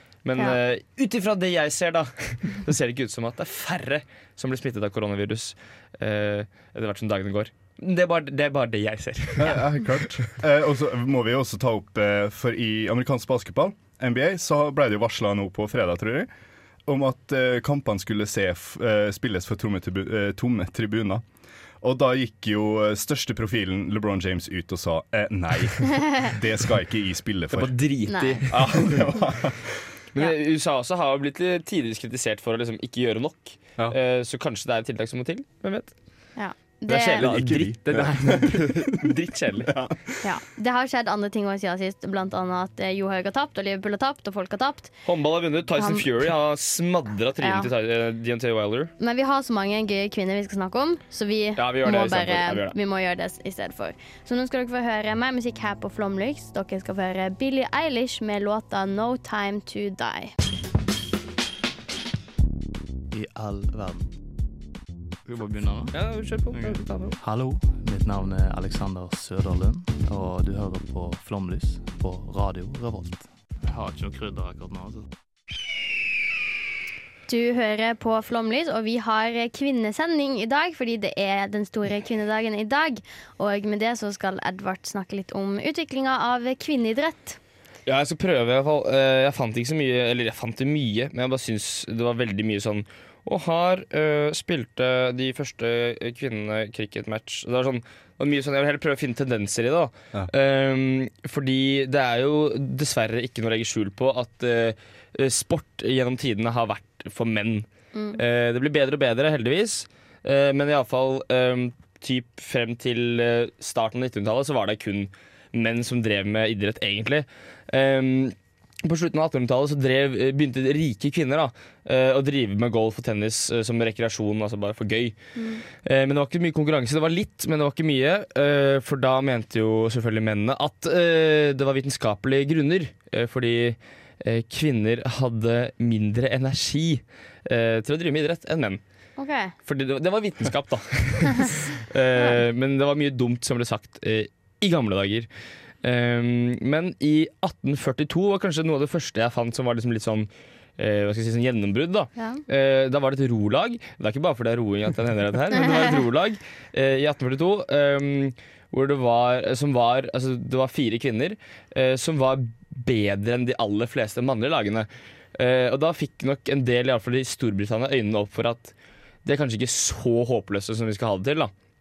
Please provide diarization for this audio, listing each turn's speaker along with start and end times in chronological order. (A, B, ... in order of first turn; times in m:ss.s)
0:00.2-0:10.1 A
0:09.4-0:16.3 B
0:16.8-0:21.2 B
0:21.8-0:27.7 B
0:27.5-0:29.0 A
0:28.1-0:28.4 C
0:28.5-0:29.8 B
0:30.1-0:36.3 A
0:36.4-0:37.3 C
0:36.9-0:39.9 A
0:37.1-0:39.1 B
0:39.6-0:40.2 B
0:40.2-0:44.9 C
0:45.0-0:48.9 A
0:45.7-0:46.0 C
0:47.4-0:47.7 C
0:49.0-1:00.3 C
0:51.6-0:52.7 A
1:03.1-1:04.1 D
1:05.2-1:15.1 D
1:05.9-1:07.2 A
1:17.3-1:27.4 C
1:27.8-2:05.1 A
1:47.9-1:48.2 C
2:05.4-2:05.6 C
2:05.7-2:18.8 A
2:19.2-2:19.5 C
2:19.6-2:25.3 A
2:25.8-2:48.7 A
2:32.2-2:32.4 C
2:49.2-2:51.5 A